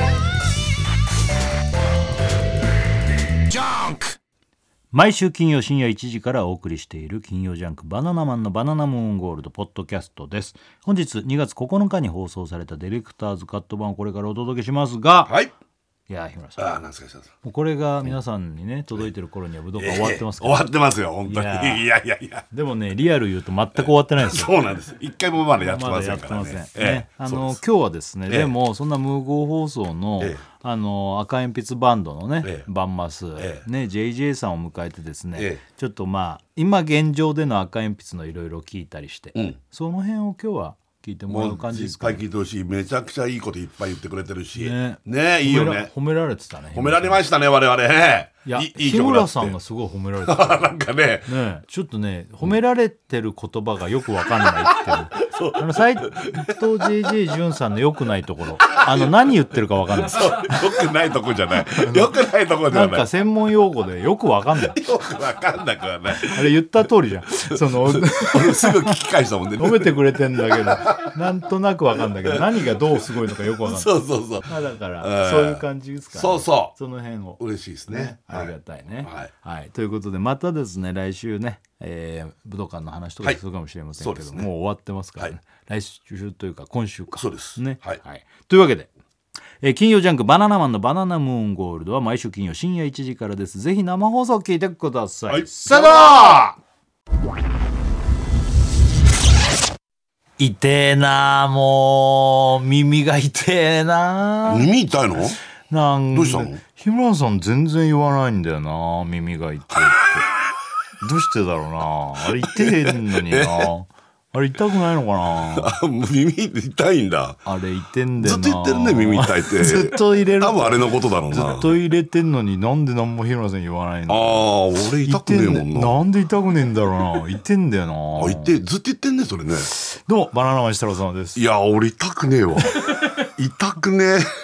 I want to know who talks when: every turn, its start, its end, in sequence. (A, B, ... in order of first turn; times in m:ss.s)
0:03.5-0:04.2 A
0:04.9-0:15.3 A
0:16.1-0:16.7 A
0:16.6-0:17.3 B
0:17.4-0:20.7 A
0:19.8-0:22.4 B
0:21.2-0:21.8 A
0:22.5-0:24.5 A
0:23.7-0:27.6 B
0:25.6-0:42.2 A
0:33.4-0:33.6 B
0:41.3-0:45.9 B
0:44.6-0:47.2 A
0:46.7-0:49.6 B
0:48.4-0:50.7 A
0:50.2-0:51.3 B
0:51.3-1:00.5 A
0:54.6-0:57.1 B
0:58.6-0:59.1 B
1:00.0-1:03.0 B
1:01.8-1:02.2 A
1:02.7-1:04.8 A
1:04.7-1:06.4 B
1:06.2-1:09.0 A
1:07.5-1:11.1 B
1:09.6-1:13.9 A
1:13.4-1:14.5 B
1:14.4-1:28.9 A
1:15.0-1:15.6 B
1:16.1-1:16.7 B
1:17.4-1:18.5 B
1:19.0-1:19.3 B
1:24.0-1:24.5 B
1:27.2-1:28.0 B
1:29.6-1:36.6 A
1:35.3-1:36.5 B
1:40.4-1:44.7 A
1:44.5-1:45.4 B
1:45.7-1:50.3 A
1:46.1-1:46.6 B
1:51.0-1:55.7 A
1:52.4-1:53.7 B
1:55.5-1:57.4 B
1:57.4-2:08.5 A
1:58.2-2:01.7 B
2:04.1-2:05.9 B
2:08.2-2:09.7 B
2:09.7-2:11.4 A
2:11.4-2:14.2 B